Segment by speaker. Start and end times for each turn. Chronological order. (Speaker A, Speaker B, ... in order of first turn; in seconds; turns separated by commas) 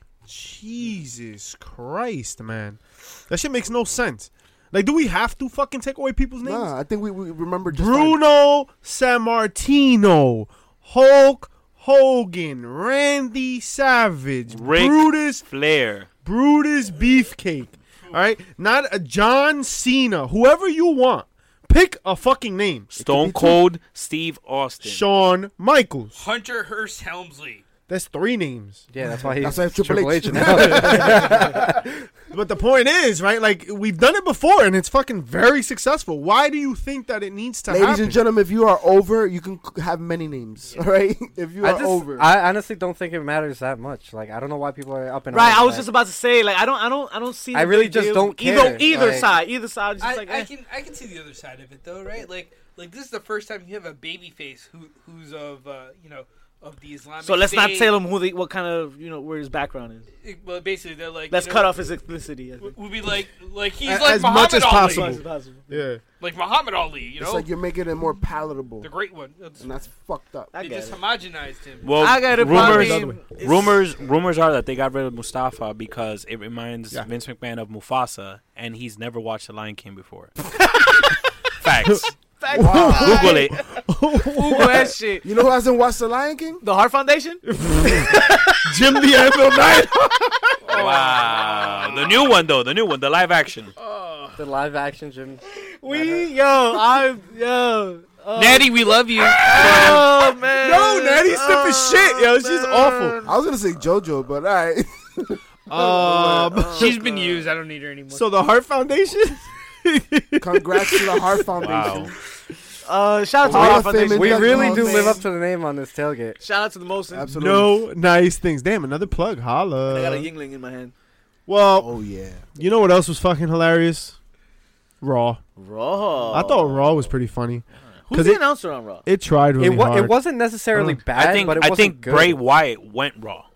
Speaker A: 0.3-6.7, Speaker B: 6.4-8.2, Speaker A: 7.7-15.4, Speaker C: 14.5-16.1, Speaker A: 16.2-22.9, Speaker C: 22.9-25.0, Speaker B: 23.0-23.6, Speaker A: 24.8-26.2, Speaker D: 26.1-27.6, Speaker A: 27.9-28.9, Speaker E: 28.9-31.6, Speaker B: 29.4-31.9, Speaker A: 30.3-31.6, Speaker A: 32.3-38.2, Speaker B: 37.7-42.3, Speaker E: 41.6-45.9, Speaker F: 45.3-50.5, Speaker E: 47.5-49.3, Speaker D: 50.0-58.0, Speaker F: 57.2-60.0, Speaker D: 60.2-61.7, Speaker F: 61.3-62.8, Speaker D: 62.6-65.2, Speaker A: 63.8-66.0, Speaker F: 64.7-65.8, Speaker D: 66.2-67.5, Speaker B: 67.2-68.9, Speaker D: 68.8-69.7, Speaker B: 69.6-70.5, Speaker F: 70.5-71.0, Speaker D: 70.5-72.2, Speaker C: 71.8-80.3, Speaker F: 72.0-73.8, Speaker A: 72.3-73.2, Speaker C: 81.6-83.6, Speaker F: 82.4-83.6, Speaker A: 82.5-85.0, Speaker B: 82.6-83.5, Speaker F: 84.3-85.2, Speaker B: 85.2-86.6, Speaker F: 86.6-88.6, Speaker A: 87.5-90.7, Speaker D: 90.7-92.3, Speaker C: 90.7-93.7, Speaker D: 93.8-94.3, Speaker E: 94.3-96.3, Speaker F: 95.5-103.4, Speaker D: 98.3-99.8, Speaker A: 99.4-103.2, Speaker B: 103.2-106.5, Speaker A: 105.7-107.0, Speaker F: 105.9-107.5, Speaker D: 106.6-108.3, Speaker A: 108.1-111.9, Speaker B: 110.4-112.1, Speaker C: 111.6-112.1, Speaker F: 112.8-115.2, Speaker B: 113.4-115.2, Speaker E: 113.5-116.4, Speaker F: 116.4-117.3, Speaker B: 117.1-117.8, Speaker A: 117.3-120.3, Speaker F: 119.9-120.9, Speaker A: 121.5-121.9, Speaker B: 121.8-122.5, Speaker A: 122.5-124.2, Speaker A: 125.0-125.4, Speaker F: 125.6-127.0, Speaker A: 126.3-128.4, Speaker F: 128.1-129.0, Speaker A: 129.0-130.2, Speaker E: 129.6-132.4, Speaker A: 130.7-131.0, Speaker C: 131.1-133.4